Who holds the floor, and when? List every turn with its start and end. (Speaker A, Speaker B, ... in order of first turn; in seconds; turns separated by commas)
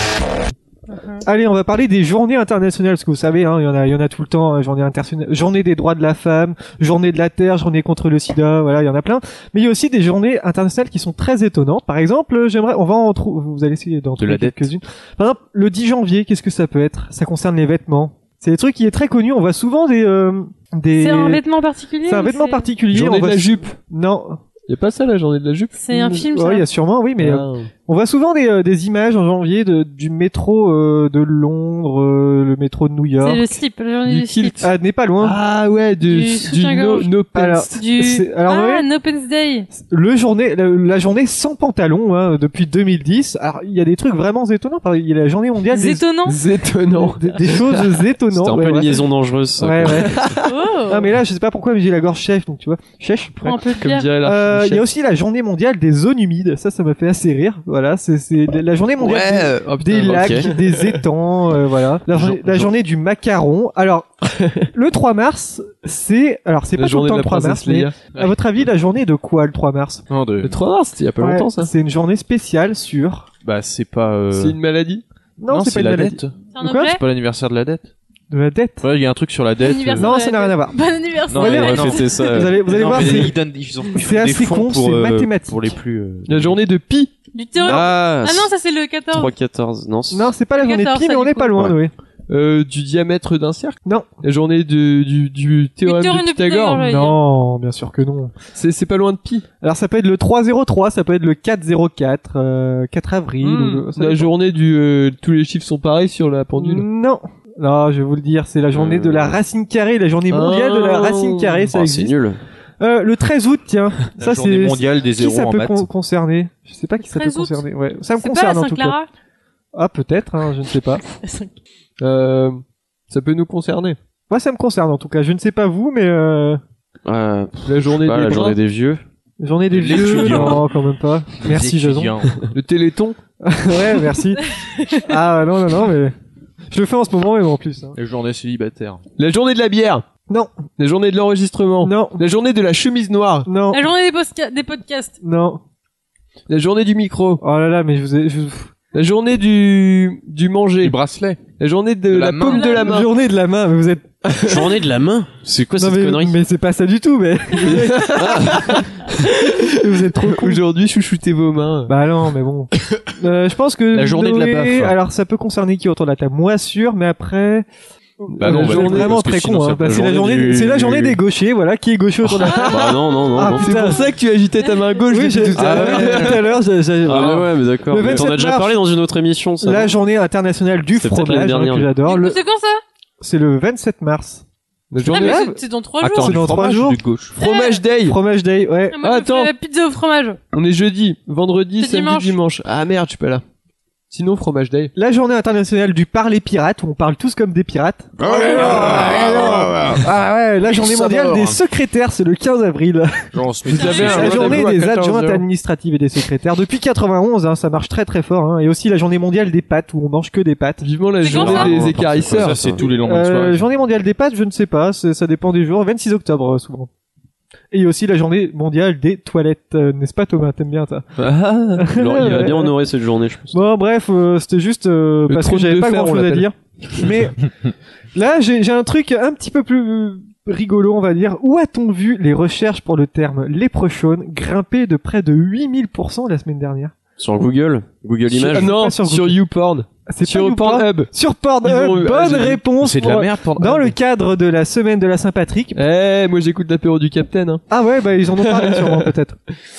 Speaker A: 0.9-1.2, Speaker B: 1.2-21.4, Speaker C: 14.2-14.7, Speaker A: 21.0-22.7, Speaker B: 22.1-24.4, Speaker D: 22.9-23.8, Speaker D: 24.7-25.8, Speaker A: 25.8-26.7, Speaker B: 25.9-33.5, Speaker D: 27.2-27.7, Speaker A: 33.2-34.6, Speaker D: 34.0-34.7, Speaker B: 34.6-35.4, Speaker D: 35.2-37.8, Speaker A: 36.0-37.2, Speaker B: 37.3-38.9, Speaker A: 37.8-39.7, Speaker B: 39.7-46.0, Speaker A: 45.7-46.4, Speaker D: 46.3-47.9, Speaker B: 47.0-49.0, Speaker E: 48.3-50.1, Speaker B: 49.6-50.3, Speaker D: 50.1-50.5, Speaker A: 50.5-51.1, Speaker B: 50.9-53.6, Speaker A: 53.4-54.1, Speaker D: 53.7-54.9, Speaker B: 54.2-64.1, Speaker D: 59.0-61.0, Speaker E: 60.1-60.5, Speaker C: 62.1-62.7, Speaker D: 64.3-64.7, Speaker B: 64.7-70.0, Speaker D: 66.7-68.0, Speaker C: 70.1-70.6, Speaker D: 70.4-71.7, Speaker B: 71.2-73.3, Speaker C: 73.4-74.6, Speaker D: 74.3-75.0, Speaker B: 75.4-77.0, Speaker C: 75.5-76.4, Speaker A: 76.5-77.0, Speaker C: 76.9-77.9, Speaker B: 78.3-78.9, Speaker C: 78.8-80.1, Speaker A: 79.6-82.5, Speaker B: 80.0-80.8, Speaker C: 81.3-86.6, Speaker B: 81.3-83.4, Speaker E: 81.6-82.6, Speaker B: 84.0-85.8, Speaker D: 86.3-87.1, Speaker A: 87.3-89.3, Speaker E: 87.6-88.5, Speaker C: 87.6-88.2, Speaker E: 89.1-90.3, Speaker B: 90.1-91.9, Speaker A: 90.5-91.6, Speaker D: 92.3-96.8, Speaker A: 95.8-97.2, Speaker B: 96.8-98.3, Speaker D: 98.5-99.5, Speaker B: 99.6-104.3, Speaker D: 103.4-106.9, Speaker B: 106.6-112.2, Speaker E: 108.8-109.3, Speaker D: 110.3-111.7, Speaker E: 111.7-112.4, Speaker B: 112.8-119.0, Speaker C: 114.2-115.9, Speaker A: 117.0-117.6, Speaker A: 118.2-119.1, Speaker B: 119.7-121.0, Speaker A: 121.1-121.5, Speaker D: 122.0-124.0, Speaker B: 124.3-126.6, Speaker E: 127.1-129.0, Speaker D: 127.7-128.6, Speaker B: 129.4-132.2, Speaker C: 129.7-130.7, Speaker C: 131.4-132.4, Speaker D: 132.5-133.2, Speaker B: 133.4-134.4, Speaker A: 134.4-135.1, Speaker B: 135.0-136.2, Speaker B: 136.7-138.0, Speaker C: 137.9-139.0, Speaker D: 139.2-140.1, Speaker D: 140.8-143.5, Speaker B: 141.8-142.2, Speaker B: 143.5-143.8, Speaker A: 143.7-145.2, Speaker B: 145.2-145.6, Speaker D: 146.5-147.4, Speaker B: 147.4-148.7, Speaker D: 148.9-151.0, Speaker C: 150.8-151.4, Speaker D: 151.6-153.1, Speaker C: 152.1-152.7, Speaker A: 152.5-152.8, Speaker B: 152.6-154.5, Speaker E: 154.4-156.4, Speaker B: 155.8-158.6, Speaker D: 157.7-161.9, Speaker E: 158.1-158.8, Speaker B: 159.7-160.6, Speaker B: 161.9-167.7, Speaker C: 163.9-165.0, Speaker B: 168.2-172.7, Speaker D: 168.3-169.2, Speaker C: 168.4-170.2, Speaker E: 169.9-171.2, Speaker D: 172.2-173.0, Speaker E: 172.7-173.7, Speaker B: 173.3-174.1, Speaker D: 173.6-176.5, Speaker B: 175.1-178.8, Speaker C: 175.6-176.3, Speaker E: 177.0-179.9, Speaker B: 179.6-182.4, Speaker E: 181.0-181.9, Speaker A: 182.0-182.8, Speaker B: 183.2-184.4, Speaker D: 184.9-185.4, Speaker B: 185.1-187.0, Speaker A: 185.1-186.4, Speaker C: 186.0-187.4, Speaker D: 187.3-188.2, Speaker A: 187.4-187.8, Speaker B: 188.0-189.0, Speaker A: 188.9-190.4, Speaker D: 189.0-189.5, Speaker D: 190.5-193.4, Speaker A: 191.8-192.4, Speaker D: 194.1-194.9, Speaker B: 195.0-210.9, Speaker C: 198.2-201.6, Speaker C: 203.3-204.8, Speaker D: 203.7-205.4, Speaker A: 203.8-204.0, Speaker D: 210.8-212.6, Speaker A: 211.2-211.8, Speaker C: 211.3-213.7, Speaker E: 211.3-212.9, Speaker B: 213.0-216.9, Speaker B: 217.7-221.1, Speaker B: 221.8-222.8, Speaker E: 221.9-223.6, Speaker B: 223.5-227.5, Speaker D: 225.3-226.5, Speaker B: 228.1-236.9, Speaker E: 237.2-238.8, Speaker D: 238.3-241.1, Speaker B: 238.5-239.4, Speaker B: 240.1-245.8, Speaker D: 241.6-242.6, Speaker C: 242.8-243.9, Speaker D: 245.8-247.6, Speaker B: 247.7-249.4, Speaker D: 248.4-249.1